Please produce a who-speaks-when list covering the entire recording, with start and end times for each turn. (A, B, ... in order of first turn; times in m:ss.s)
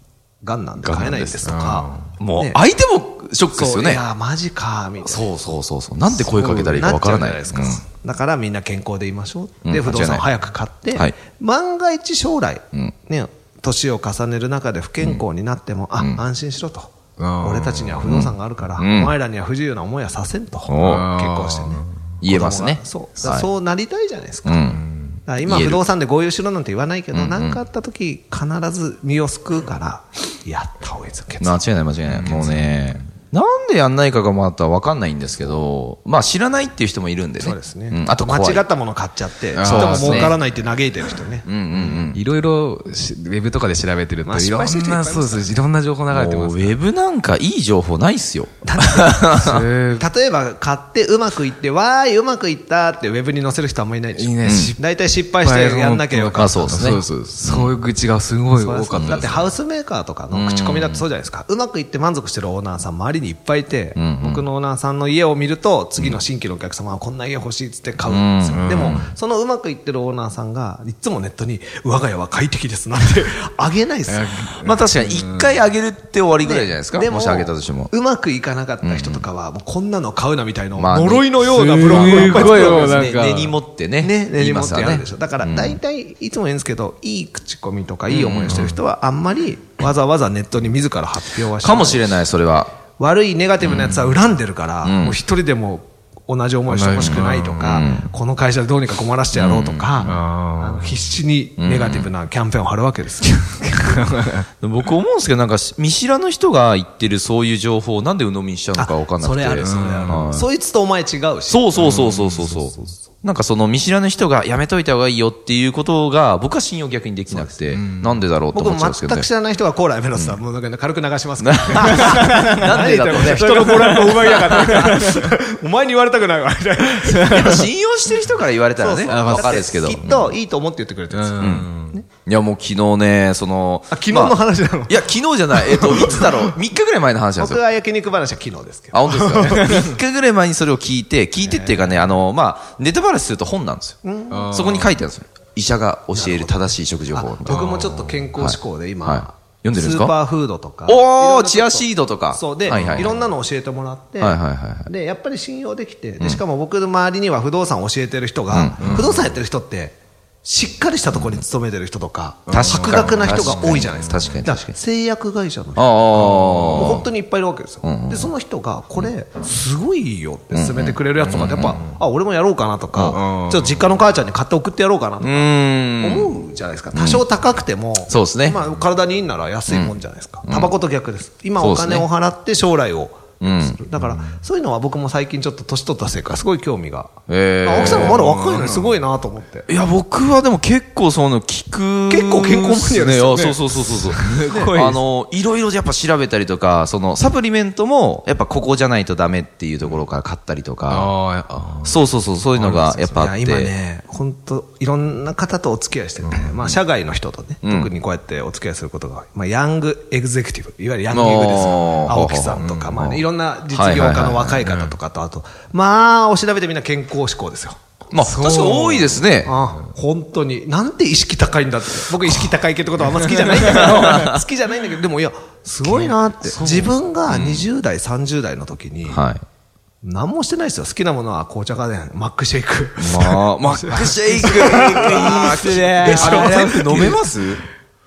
0:00.4-0:02.6 A
0:00.8-0:01.5 B
0:01.4-0:02.2 C
0:02.2-0:04.0 B
0:03.5-0:05.3 A
0:05.0-0:07.8 B
0:06.4-0:06.9 C
0:06.8-0:24.6 A
0:09.6-0:10.3 B
0:16.0-0:16.2 B
0:17.2-0:18.1 C
0:18.0-0:19.1 B
0:20.7-0:21.1 B
0:20.8-0:21.9 C
0:22.2-0:23.5 B
0:24.4-0:24.8 B
0:24.7-0:25.2 C
0:25.3-0:31.6 A
0:25.4-0:25.8 B
0:27.1-0:27.6 B
0:31.4-0:38.7 B
0:32.1-0:33.0 C
0:37.4-0:41.5 A
0:39.5-0:40.4 C
0:39.6-0:40.3 B
0:41.4-0:42.2 B
0:41.8-0:46.8 C
0:44.2-0:45.5 A
0:46.1-0:49.6 B
0:48.6-0:57.0 A
0:49.4-0:50.1 C
0:54.2-0:54.9 C
0:54.4-0:54.8 B
0:55.4-0:59.5 C
0:56.4-0:57.7 B
0:58.5-1:14.4 A
0:59.0-0:59.3 B
1:00.3-1:01.0 B
1:04.0-1:04.4 B
1:08.0-1:09.0 B
1:08.5-1:09.1 C
1:14.1-1:15.6 C
1:14.6-1:17.9 B
1:16.4-1:23.2 A
1:18.8-1:19.3 B
1:20.8-1:25.8 B
1:21.4-1:23.6 C
1:24.0-1:32.2 A
1:28.1-1:28.7 B
1:31.6-1:32.7 B
1:33.0-1:43.7 A
1:33.7-1:34.1 C
1:34.8-1:35.2 B
1:36.7-1:37.8 C
1:37.0-1:38.1 B
1:39.3-1:40.2 B
1:40.0-1:41.0 C
1:41.6-1:42.1 B
1:43.7-1:44.5 C
1:44.6-1:50.5 B
1:48.8-1:53.0 A
1:49.6-1:50.3 C
1:51.5-1:59.3 B
1:51.8-1:52.6 C
1:57.3-1:57.6 A
1:57.7-1:58.2 C
1:58.5-2:07.5 A
2:01.4-2:05.0 B
2:01.9-2:05.3 C
2:07.0-2:07.7 C
2:07.1-2:10.1 B
2:08.8-2:12.1 A
2:09.1-2:10.3 C
2:11.1-2:12.0 C
2:11.4-2:11.7 B
2:12.2-2:17.6 B
2:13.9-2:16.6 A
2:17.4-2:19.8 A
2:18.9-2:24.0 B
2:21.4-2:22.0 A
2:24.0-2:24.6 A
2:24.3-2:25.0 C
2:24.5-2:27.7 B
2:26.1-3:09.7 A
2:27.5-2:28.2 C
2:28.4-2:30.2 B
2:30.9-2:33.2 B
2:32.7-2:33.2 C
2:34.2-2:34.9 B
2:38.5-2:39.1 B
2:38.8-2:39.2 C
2:41.1-2:41.4 B
2:42.5-2:44.3 C
2:42.5-2:44.8 B
2:45.8-2:47.1 B
2:47.8-2:48.3 B
2:50.5-2:51.8 B
2:53.1-2:53.9 C
2:55.2-2:56.4 B
2:56.9-2:57.2 B
2:58.1-2:58.6 B
2:59.7-2:59.9 B
3:00.5-3:00.7 B
3:01.6-3:02.1 B
3:03.4-3:03.8 B
3:04.0-3:04.4 C
3:07.3-3:08.3 B
3:08.1-3:09.0 C
3:09.7-3:21.1 B
3:12.1-3:14.8 A
3:14.2-3:15.0 C
3:20.9-3:22.0 C
3:21.8-3:23.7 B
3:22.6-3:23.2 C
3:23.1-3:37.8 A
3:26.2-3:26.8 C
3:27.6-3:27.9 B
3:31.1-3:34.7 B
3:32.6-3:33.2 C
3:34.7-3:34.9 C
3:38.1-3:39.5 B
3:38.1-3:39.3 C
3:39.4-3:49.2 A
3:43.4-3:44.2 C
3:43.6-3:44.4 B
3:46.5-3:47.7 B
3:49.1-3:49.4 B
3:50.0-3:57.2 A
3:53.0-3:57.6 B
3:54.9-3:56.8 C